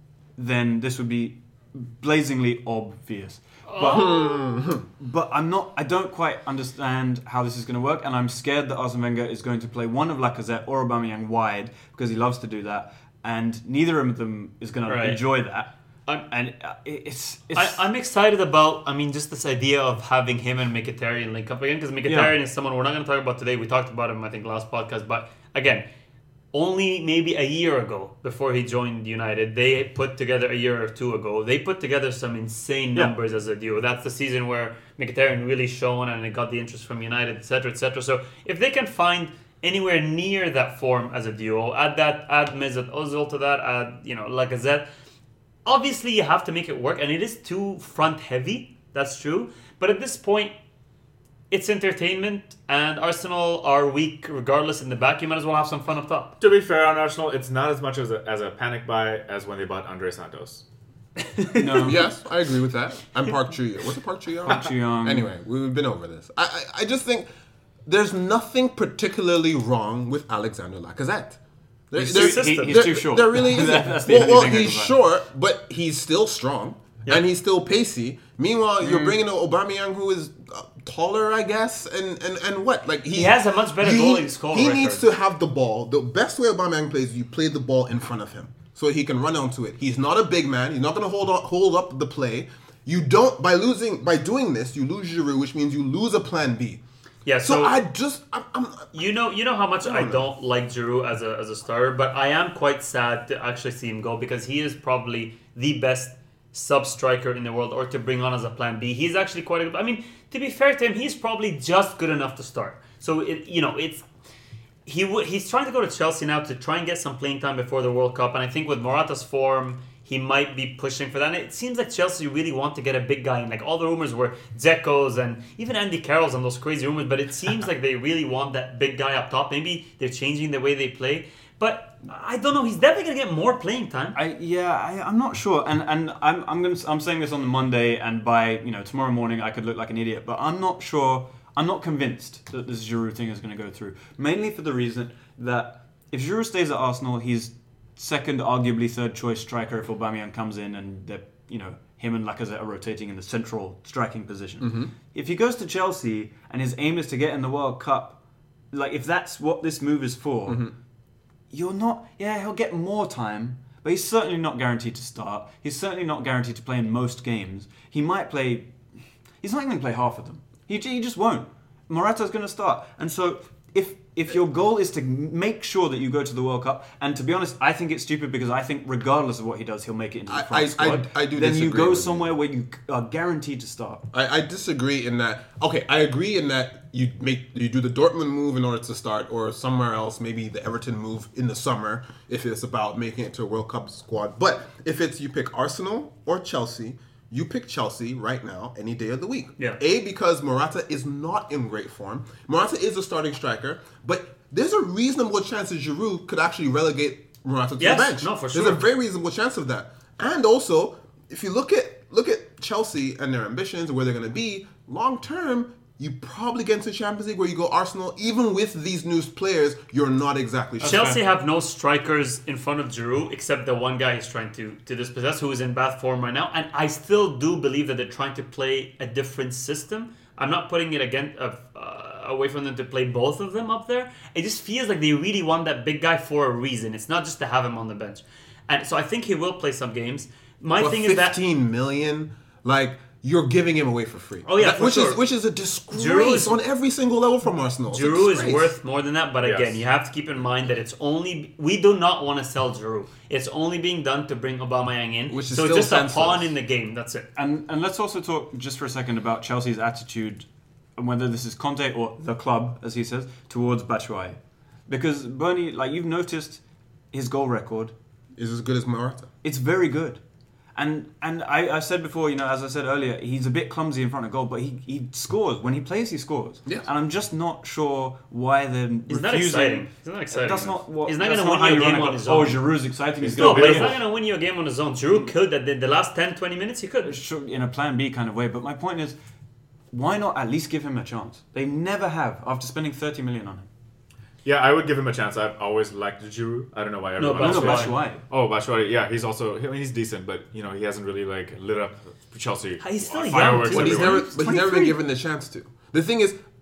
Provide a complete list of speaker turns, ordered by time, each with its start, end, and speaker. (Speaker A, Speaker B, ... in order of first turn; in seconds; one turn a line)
Speaker A: 0.4-4.1
Speaker B: 3.7-4.4
Speaker C: 3.8-4.8
Speaker A: 5.0-15.7
Speaker B: 14.9-15.2
Speaker A: 16.3-17.8
Speaker B: 17.6-25.9
Speaker A: 22.1-22.3
Speaker B: 26.5-44.9
Speaker B: 45.6-50.5
Speaker B: 51.5-56.4
Speaker D: 56.4-60.6
Speaker B: 61.2-62.0
Speaker A: 61.5-62.0
Speaker C: 61.8-67.3
Speaker A: 64.5-65.3
Speaker C: 67.9-71.4
Speaker C: 71.9-96.8
Speaker A: 72.0-75.0
Speaker B: 72.1-73.2
Speaker A: 78.8-79.2
Speaker B: 83.1-85.1
Speaker B: 97.2-97.8
Speaker C: 97.4-98.9
Speaker B: 98.9-114.0
Speaker C: 99.8-100.2
Speaker B: 114.9-134.2
Speaker A: 134.2-158.2
Speaker C: 154.6-154.9
Speaker A: 158.7-160.7
Speaker C: 160.5-160.7
Speaker A: 161.5-168.7
Speaker A: 169.4-184.1
Speaker C: 180.3-182.3
Speaker C: 184.1-221.2
Speaker B: 207.8-208.8
Speaker B: 220.8-241.4
Speaker A: 220.8-221.2
Speaker C: 240.8-248.7
Speaker B: 244.5-245.2
Speaker B: 245.9-246.6
Speaker B: 247.9-257.3
Speaker D: 249.4-249.8
Speaker C: 255.3-256.5
Speaker A: 257.4-260.5
Speaker A: 261.0-266.6
Speaker A: 267.1-267.9
Speaker C: 268.4-269.3
Speaker A: 269.4-270.2
Speaker A: 270.8-284.0
Speaker B: 279.1-282.7
Speaker D: 283.2-284.0
Speaker B: 283.4-287.1
Speaker A: 287.0-289.1
Speaker A: 289.9-293.7
Speaker D: 294.4-304.2
Speaker B: 297.2-298.0
Speaker A: 297.4-298.2
Speaker B: 302.8-304.2
Speaker C: 303.7-306.4
Speaker A: 304.0-305.0